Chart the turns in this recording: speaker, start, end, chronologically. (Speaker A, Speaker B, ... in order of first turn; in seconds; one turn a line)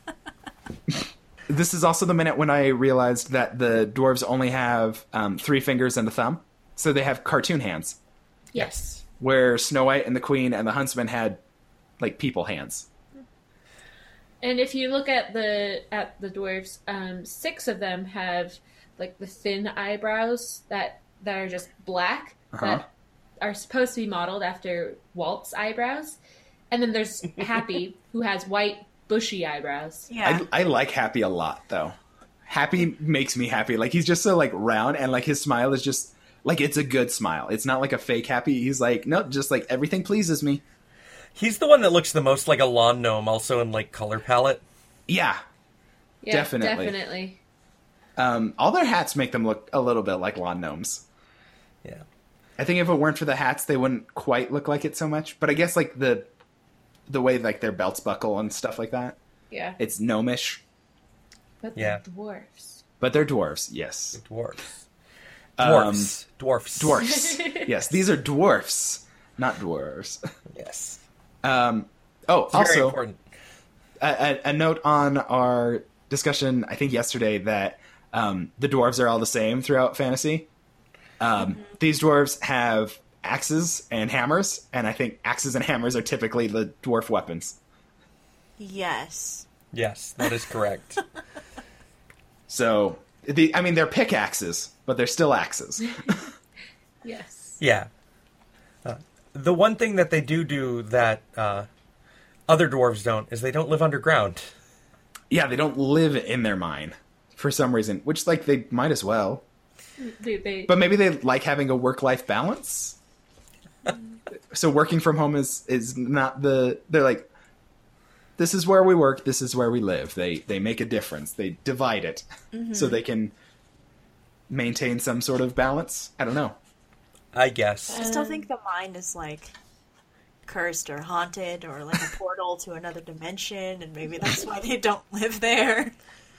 Speaker A: 1.5-8.0
Speaker B: 8.5-9.0
Speaker A: 8.6-11.4
Speaker A: 12.0-12.9
Speaker B: 14.4-22.9
Speaker A: 22.5-22.8
Speaker B: 23.4-26.2
Speaker B: 26.7-30.1
Speaker C: 30.1-30.4
Speaker A: 30.2-31.9
Speaker A: 32.5-40.6
Speaker D: 41.4-44.6
Speaker A: 45.1-45.4
Speaker B: 46.2-47.4
Speaker A: 46.3-47.0
Speaker A: 48.2-51.0
Speaker A: 52.6-56.3
Speaker A: 57.1-59.2
Speaker B: 59.5-59.8
Speaker A: 59.8-60.6
Speaker B: 61.6-62.8
Speaker D: 61.8-62.0
Speaker A: 63.0-64.2
Speaker D: 64.1-64.8
Speaker A: 65.6-66.2
Speaker D: 65.6-67.0
Speaker A: 66.8-70.2
Speaker B: 67.0-67.7
Speaker D: 70.5-71.0
Speaker A: 71.4-73.0
Speaker D: 72.5-73.2
Speaker A: 74.0-80.5
Speaker A: 81.2-87.6
Speaker C: 81.4-81.7
Speaker C: 88.6-89.5
Speaker D: 89.7-91.0
Speaker A: 92.5-96.2
Speaker B: 97.0-97.6
Speaker D: 97.6-97.9
Speaker D: 98.8-101.7
Speaker D: 102.5-104.5
Speaker A: 105.3-109.4
Speaker B: 110.0-110.8
Speaker A: 110.7-113.0
Speaker A: 114.5-117.3
Speaker A: 118.4-123.3
Speaker C: 122.5-123.0
Speaker A: 124.5-126.6
Speaker D: 127.3-128.0
Speaker B: 127.9-128.5
Speaker C: 127.9-129.5
Speaker C: 130.5-135.9